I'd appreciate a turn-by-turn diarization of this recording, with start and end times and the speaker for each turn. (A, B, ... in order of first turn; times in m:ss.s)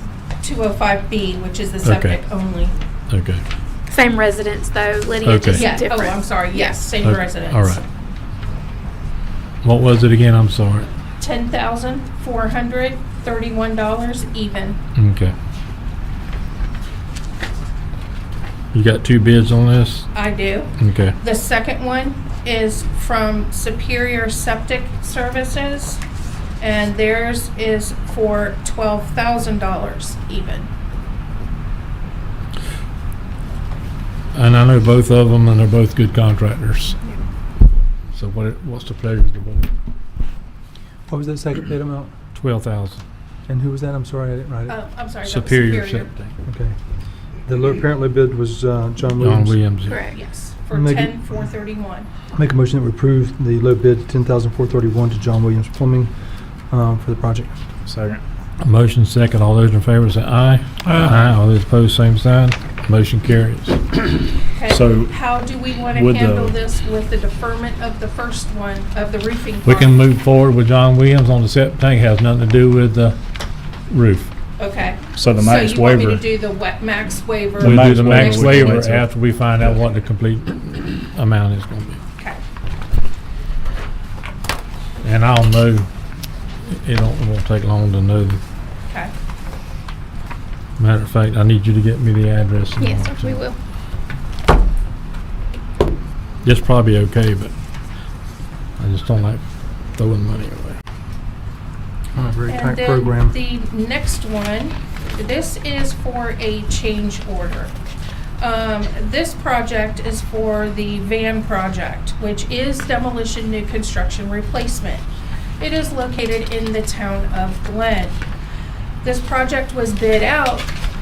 0:00.4-0:02.7 A
0:01.8-0:02.2 B
0:03.1-0:03.4 B
0:03.9-0:06.9 C
0:05.2-0:05.7 B
0:05.5-0:07.8 A
0:07.0-0:07.8 B
0:09.6-0:10.9 B
0:11.2-0:14.8 A
0:15.0-0:15.3 B
0:18.7-0:20.1 B
0:20.1-0:26.0 A
0:20.8-0:21.2 B
0:26.6-0:30.7 A
0:34.3-0:37.0 B
0:38.1-0:39.7 B
0:41.1-0:42.1 D
0:42.3-0:43.0 B
0:43.5-0:44.8 D
0:44.7-0:46.1 A
0:45.2-0:46.4 B
0:46.4-0:46.7 D
0:47.4-0:49.6 D
0:49.2-0:50.0 B
0:49.9-0:50.2 C
0:50.1-0:52.1 A
0:50.7-0:51.2 D
0:52.3-0:56.1 D
0:56.7-0:57.5 D
0:57.8-0:58.2 E
0:58.6-1:04.0 B
1:04.5-1:10.0 A
1:04.7-1:05.2 E
1:05.9-1:06.5 E
1:09.6-1:13.2 B
1:13.9-1:14.3 B
1:14.6-1:18.8 A
1:15.2-1:16.2 E
1:17.6-1:22.0 B
1:17.6-1:19.1 E
1:25.0-1:25.9 B
1:26.7-1:28.4 B
1:30.8-1:33.4 B
1:32.8-1:33.6 C
1:36.4-1:37.5 B
1:38.8-1:39.4 B
1:39.9-1:40.8 B
1:42.1-1:43.3 D
1:42.5-1:47.7 A
1:48.4-1:55.1 A
1:55.6-1:58.2 A
1:59.0-2:00.7 A